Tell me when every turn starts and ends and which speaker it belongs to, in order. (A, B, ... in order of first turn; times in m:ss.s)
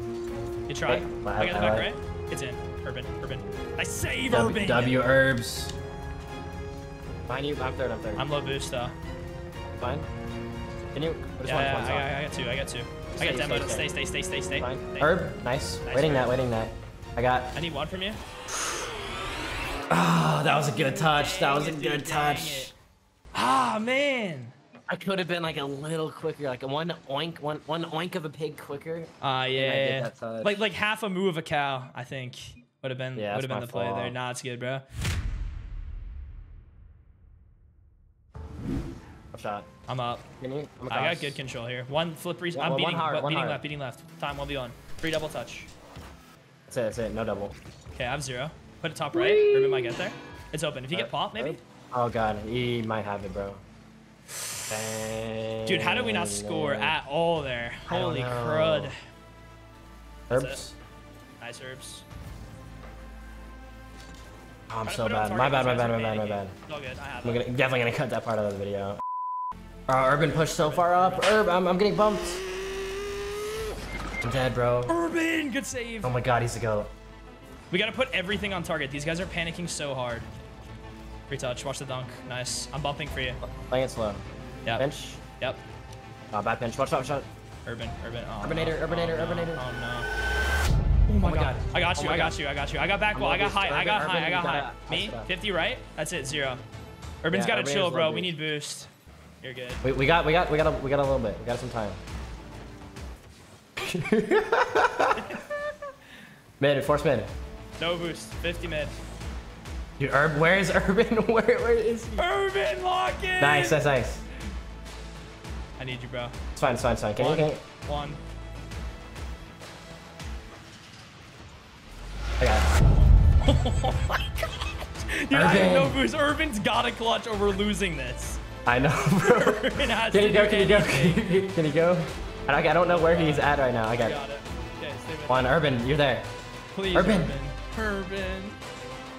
0:00.7-0:05.0 A
0:00.8-0:01.9 B
0:04.2-0:05.7 B
0:07.3-0:08.3 B
0:08.2-0:08.9 A
0:09.8-0:10.0 B
0:10.9-0:12.2 B
0:11.4-0:15.2 A
0:13.2-0:13.9 B
0:14.6-0:17.5 B
0:15.8-0:16.4 A
0:17.5-0:18.2 A
0:19.9-0:22.7 B
0:20.8-0:22.7 A
0:23.3-0:24.5 A
0:24.9-0:30.6 B
0:29.2-0:34.8 A
0:33.2-0:34.2 B
0:39.3-0:39.7 B
0:39.9-0:40.2 A
0:40.4-0:41.4 B
0:40.9-0:45.7 A
0:42.5-0:43.6 B
0:46.7-0:47.5 B
0:47.9-0:51.6 A
0:49.1-0:50.0 B
0:50.9-0:53.6 B
0:54.7-0:57.0 B
0:55.6-0:59.0 A
0:57.9-0:58.9 B
1:00.3-1:00.7 B
1:00.3-1:00.6 A
1:01.4-1:02.0 A
1:04.7-1:06.5 B
1:04.8-1:07.5 A
1:07.2-1:09.0 B
1:09.9-1:12.4 B
1:10.3-1:11.3 A
1:14.2-1:15.0 B
1:14.9-1:16.1 A
1:16.0-1:16.9 B
1:17.7-1:20.3 A
1:21.3-1:23.4 A
1:23.7-1:24.2 B
1:24.8-1:25.2 B
1:26.3-1:27.2 B
1:27.6-1:30.1 A
1:28.4-1:29.6 B
1:31.1-1:36.6 A
1:31.2-1:32.4 B
1:33.1-1:35.3 B
1:37.2-1:38.9 A
1:37.3-1:38.3 B
1:39.4-1:39.8 A
1:39.8-1:42.0 B
1:43.8-1:45.4 B
1:45.1-1:45.5 A
1:46.6-1:47.3 B
1:47.8-1:49.0 A
1:50.0-1:52.3 B
1:52.2-1:53.8 A
1:53.4-1:54.2 B
1:55.8-1:56.3 A
1:56.6-1:57.6 B
1:57.2-1:58.2 A
2:02.4-2:02.7 B
2:03.4-2:08.4 A
2:05.3-2:06.0 B
2:08.6-2:14.2 B
2:09.2-2:11.3 A
2:12.8-2:15.5 A
2:15.3-2:16.3 B
2:16.7-2:18.6 A
2:16.9-2:17.3 B